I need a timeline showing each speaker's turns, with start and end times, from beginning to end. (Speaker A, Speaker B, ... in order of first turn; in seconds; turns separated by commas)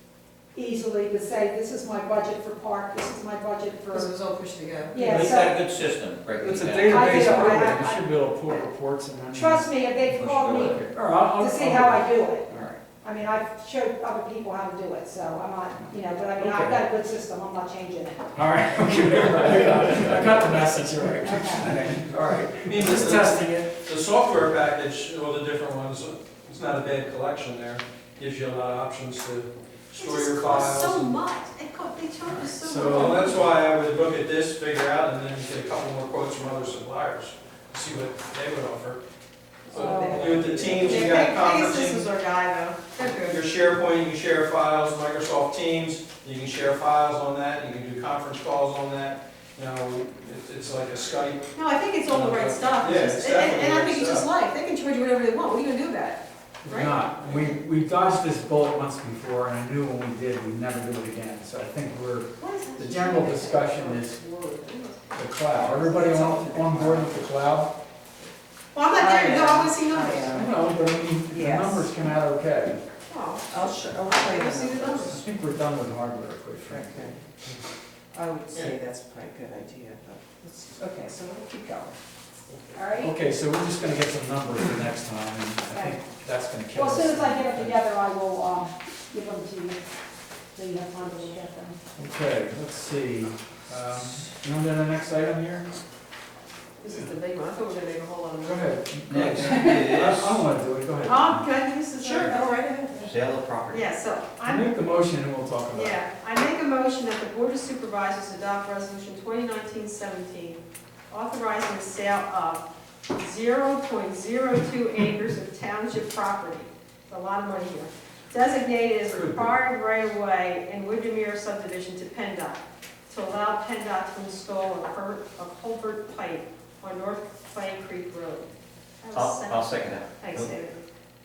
Speaker A: 0.5-4.1, Speaker B: 3.9-5.0, Speaker A: 4.9-5.6, Speaker C: 5.0-7.2, Speaker D: 6.4-9.7, Speaker A: 6.8-8.0, Speaker A: 9.3-18.3, Speaker C: 10.1-10.8, Speaker D: 10.5-12.8, Speaker D: 16.4-16.9, Speaker D: 18.3-23.7, Speaker A: 21.2-21.8, Speaker E: 22.6-31.1, Speaker B: 29.9-33.3, Speaker D: 32.2-33.3, Speaker E: 32.9-39.0, Speaker B: 39.7-43.4, Speaker F: 39.7-41.3, Speaker E: 39.7-42.0, Speaker E: 43.0-51.5, Speaker B: 51.5-57.4, Speaker E: 52.0-54.3, Speaker D: 56.6-64.2, Speaker B: 62.4-65.0, Speaker D: 65.1-67.7, Speaker F: 65.5-67.2, Speaker B: 68.7-70.5, Speaker F: 68.9-70.5, Speaker D: 70.2-72.8, Speaker F: 71.3-71.9, Speaker B: 73.1-75.2, Speaker F: 73.5-75.2, Speaker D: 75.0-77.2, Speaker F: 76.7-77.1, Speaker F: 78.1-81.9, Speaker A: 82.7-83.2, Speaker D: 83.0-87.8, Speaker A: 85.7-86.0, Speaker A: 86.7-89.8, Speaker A: 90.5-91.8, Speaker D: 92.0-95.7, Speaker B: 96.8-98.7, Speaker D: 98.4-101.5, Speaker C: 99.1-100.4, Speaker B: 101.0-102.5, Speaker F: 102.0-103.1, Speaker C: 103.0-103.8, Speaker B: 103.7-104.7, Speaker D: 104.4-106.0, Speaker B: 105.7-128.5, Speaker D: 119.0-119.5, Speaker B: 129.0-130.8, Speaker C: 129.1-130.5